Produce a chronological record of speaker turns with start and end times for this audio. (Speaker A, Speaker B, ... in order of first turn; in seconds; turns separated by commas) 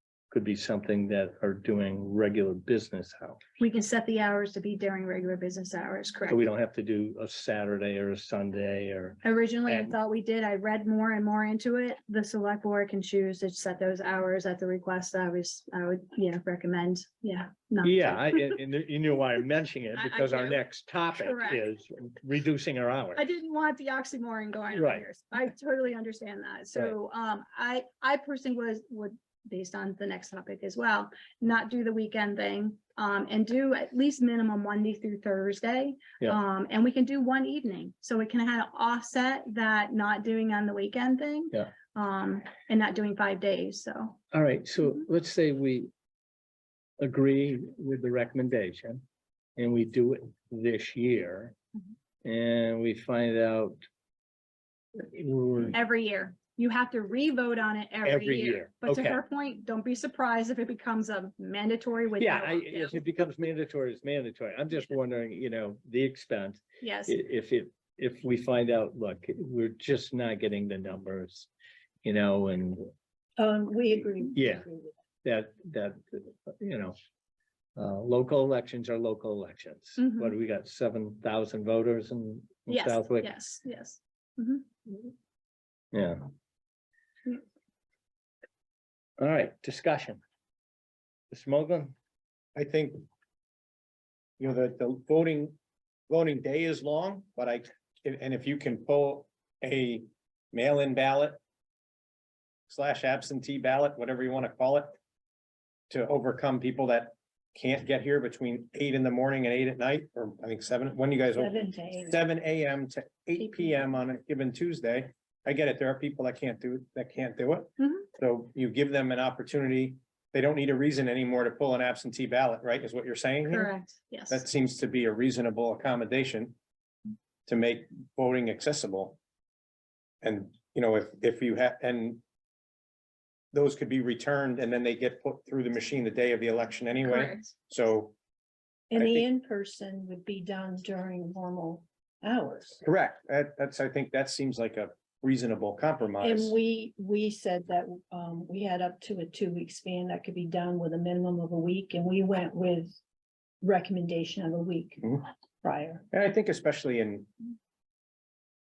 Speaker A: 0.3-3.4, Speaker B: 3.6-6.4, Speaker A: 6.3-9.9, Speaker B: 9.2-18.5, Speaker A: 17.8-23.2, Speaker B: 19.9-21.6, Speaker B: 23.1-44.2, Speaker A: 24.7-25.1, Speaker A: 44.3-45.9, Speaker A: 47.0-49.0, Speaker A: 49.6-51.5, Speaker A: 52.2-53.8, Speaker A: 55.0-55.8, Speaker B: 55.7-63.0, Speaker A: 58.0-59.2, Speaker A: 62.2-71.5, Speaker B: 66.8-67.2, Speaker A: 72.0-72.9, Speaker C: 73.4-74.9, Speaker A: 74.3-74.7, Speaker A: 75.2-77.0, Speaker A: 77.8-83.3, Speaker B: 80.0-80.3, Speaker B: 82.7-84.7, Speaker A: 85.9-86.3, Speaker A: 89.2-90.2, Speaker A: 91.3-91.9, Speaker D: 92.5-93.0, Speaker D: 94.4-95.6, Speaker D: 96.1-101.4, Speaker D: 102.7-104.9, Speaker D: 105.9-123.7, Speaker C: 111.3-112.2, Speaker B: 117.8-118.1, Speaker B: 123.5-124.4, Speaker D: 124.3-126.6, Speaker D: 127.5-129.2, Speaker D: 130.2-132.2, Speaker D: 133.5-138.2, Speaker B: 137.0-137.5, Speaker C: 138.9-142.8, Speaker D: 139.0-139.2, Speaker D: 142.8-146.5, Speaker C: 146.2-153.0, Speaker C: 153.6-156.1, Speaker D: 156.1-157.3